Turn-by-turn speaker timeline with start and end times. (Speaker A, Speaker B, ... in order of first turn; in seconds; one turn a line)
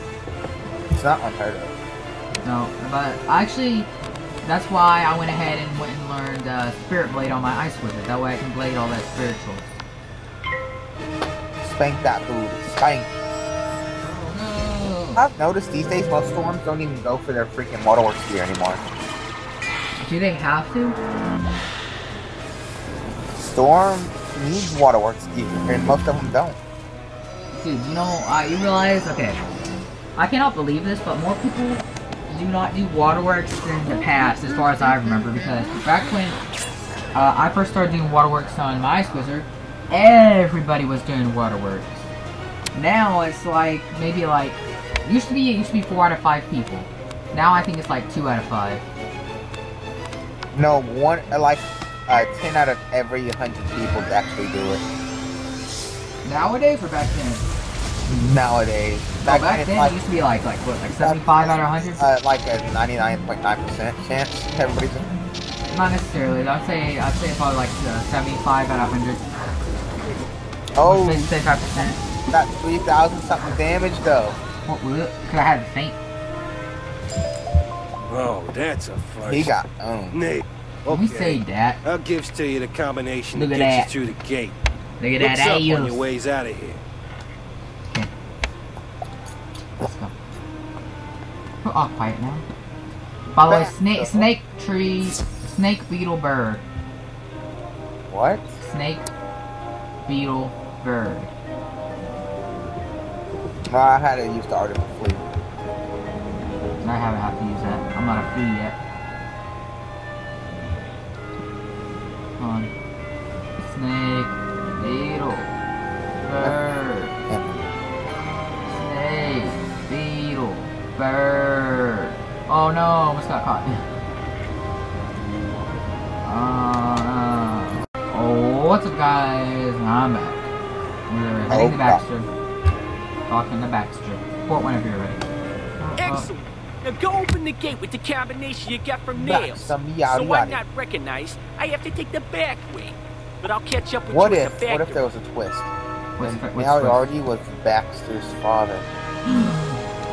Speaker A: 0.9-1.7
Speaker B: 2.4-3.9
Speaker B: 4.4-9.8
Speaker A: 11.6-13.1
Speaker B: 14.0-15.2
Speaker A: 15.2-18.8
Speaker B: 20.0-21.0
Speaker A: 23.4-26.6
Speaker B: 27.5-29.4
Speaker B: 30.2-36.4
Speaker B: 37.1-42.1
Speaker B: 42.7-48.9
Speaker A: 50.5-54.8
Speaker B: 56.2-57.5
Speaker A: 58.0-60.0
Speaker B: 59.2-62.0
Speaker A: 61.0-65.1
Speaker B: 65.7-69.2
Speaker A: 70.8-71.3
Speaker B: 70.8-72.0
Speaker A: 72.3-74.4
Speaker B: 74.7-76.0
Speaker C: 78.1-79.5
Speaker A: 79.2-80.2
Speaker C: 80.1-84.5
Speaker B: 80.9-81.8
Speaker B: 83.3-83.9
Speaker B: 85.0-86.0
Speaker C: 85.2-86.8
Speaker B: 89.8-90.2
Speaker B: 91.6-92.5
Speaker B: 93.3-96.6
Speaker A: 93.5-94.3
Speaker A: 98.1-98.6
Speaker B: 98.6-99.1
Speaker B: 100.0-101.3
Speaker A: 103.7-105.2
Speaker B: 106.8-108.8
Speaker B: 112.4-112.7
Speaker B: 113.6-115.5
Speaker B: 116.2-117.1
Speaker A: 117.3-117.7
Speaker B: 118.7-123.8
Speaker B: 126.2-130.5
Speaker B: 131.1-132.3
Speaker A: 131.5-132.0
Speaker B: 133.3-135.2
Speaker B: 135.8-136.3
Speaker D: 136.0-145.1
Speaker A: 139.1-140.6
Speaker A: 144.1-148.9
Speaker B: 146.2-147.1
Speaker B: 149.2-149.8